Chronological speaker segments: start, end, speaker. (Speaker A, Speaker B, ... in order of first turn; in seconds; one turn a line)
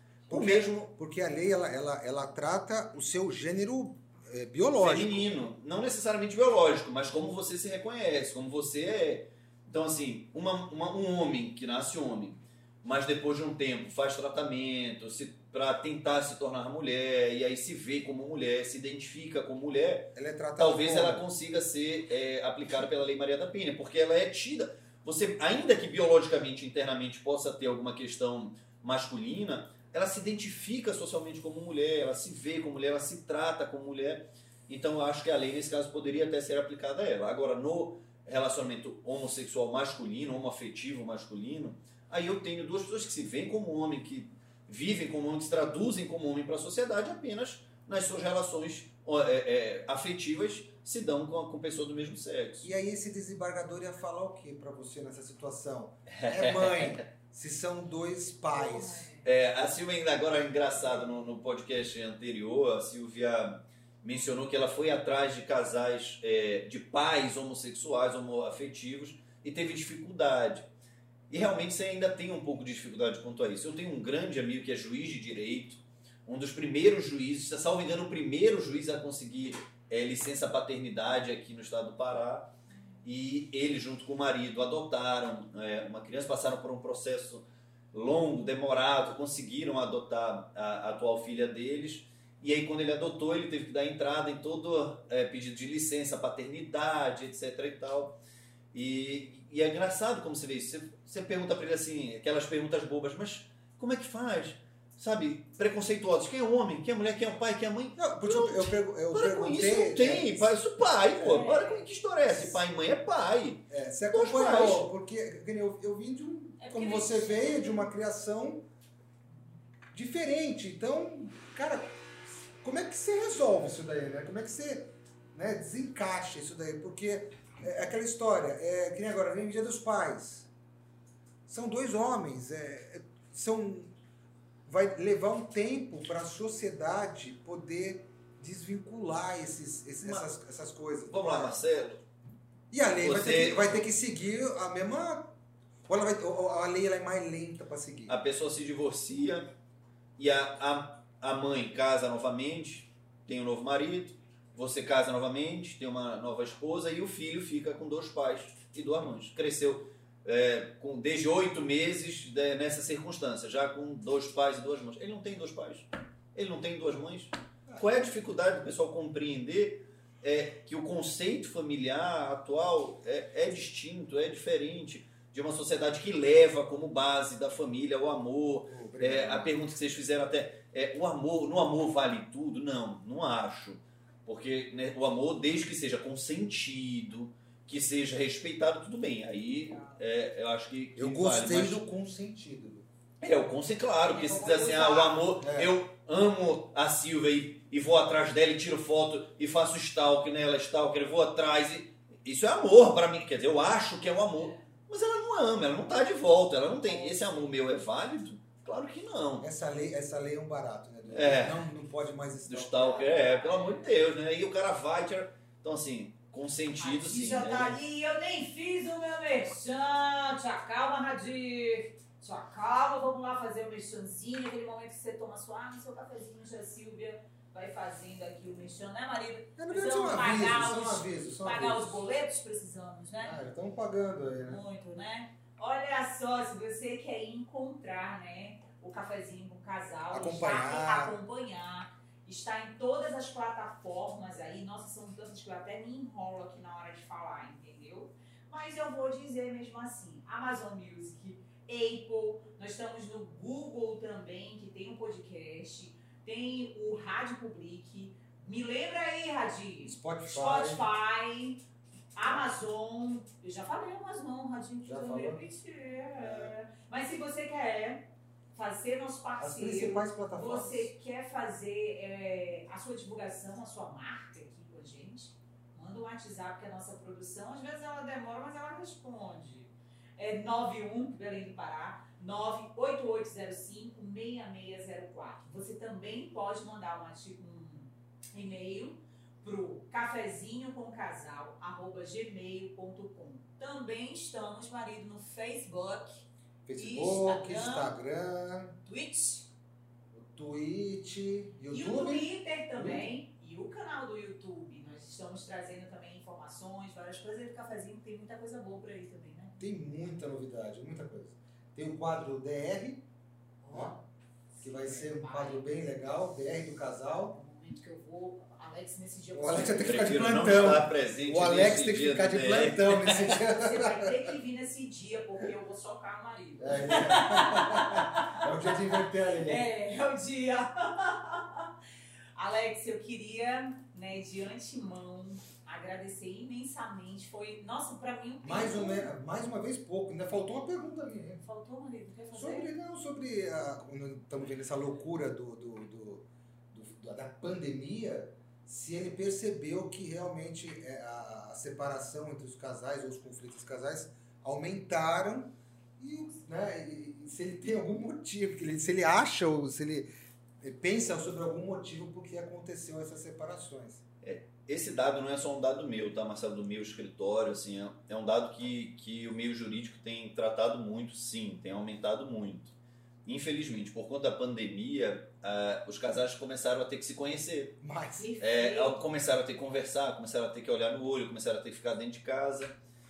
Speaker A: 0.3-0.8
Speaker B: 0.3-5.4
Speaker A: 4.8-52.7
Speaker B: 20.1-21.2
Speaker B: 52.6-59.1
Speaker A: 56.1-57.0
Speaker C: 58.5-59.2
Speaker A: 59.2-70.7
Speaker A: 71.3-98.2
Speaker A: 98.7-114.9
Speaker B: 108.0-110.6
Speaker C: 111.2-111.8
Speaker B: 113.7-118.7
Speaker C: 116.6-117.8
Speaker B: 119.9-122.0
Speaker B: 122.6-130.5
Speaker B: 131.4-133.9
Speaker B: 134.7-141.6
Speaker A: 140.0-140.3
Speaker A: 141.1-142.0
Speaker B: 142.7-145.3
Speaker A: 143.0-143.8
Speaker B: 145.9-148.2
Speaker A: 148.1-149.5
Speaker A: 150.2-191.8
Speaker B: 178.7-179.6
Speaker C: 189.6-190.0
Speaker B: 190.9-192.8
Speaker A: 193.2-209.5
Speaker C: 194.0-195.3
Speaker B: 195.4-195.7
Speaker C: 204.3-204.7
Speaker C: 206.9-207.3
Speaker B: 209.4-213.0
Speaker A: 211.1-211.7
Speaker A: 212.4-217.7
Speaker C: 212.8-213.9
Speaker C: 216.8-233.4
Speaker B: 229.6-232.0
Speaker B: 233.2-234.6
Speaker C: 234.4-261.6
Speaker B: 240.1-241.2
Speaker B: 259.8-260.9
Speaker C: 262.1-297.9
Speaker B: 264.8-265.4
Speaker B: 266.2-266.5
Speaker B: 269.4-270.9
Speaker B: 296.6-298.8
Speaker C: 298.9-299.5
Speaker B: 300.1-303.1
Speaker C: 301.7-309.6
Speaker B: 309.6-313.0
Speaker C: 313.6-315.7
Speaker B: 313.7-313.9
Speaker B: 314.6-317.3
Speaker C: 317.3-320.3
Speaker B: 319.3-324.1
Speaker A: 319.8-323.4
Speaker C: 323.4-331.7
Speaker B: 326.6-329.7
Speaker C: 332.4-339.1
Speaker B: 338.4-341.4
Speaker C: 341.4-342.7
Speaker B: 342.3-360.1
Speaker B: 360.6-364.0
Speaker A: 364.2-372.7
Speaker A: 373.2-377.8
Speaker B: 377.8-378.3
Speaker C: 378.2-379.0
Speaker A: 378.4-382.7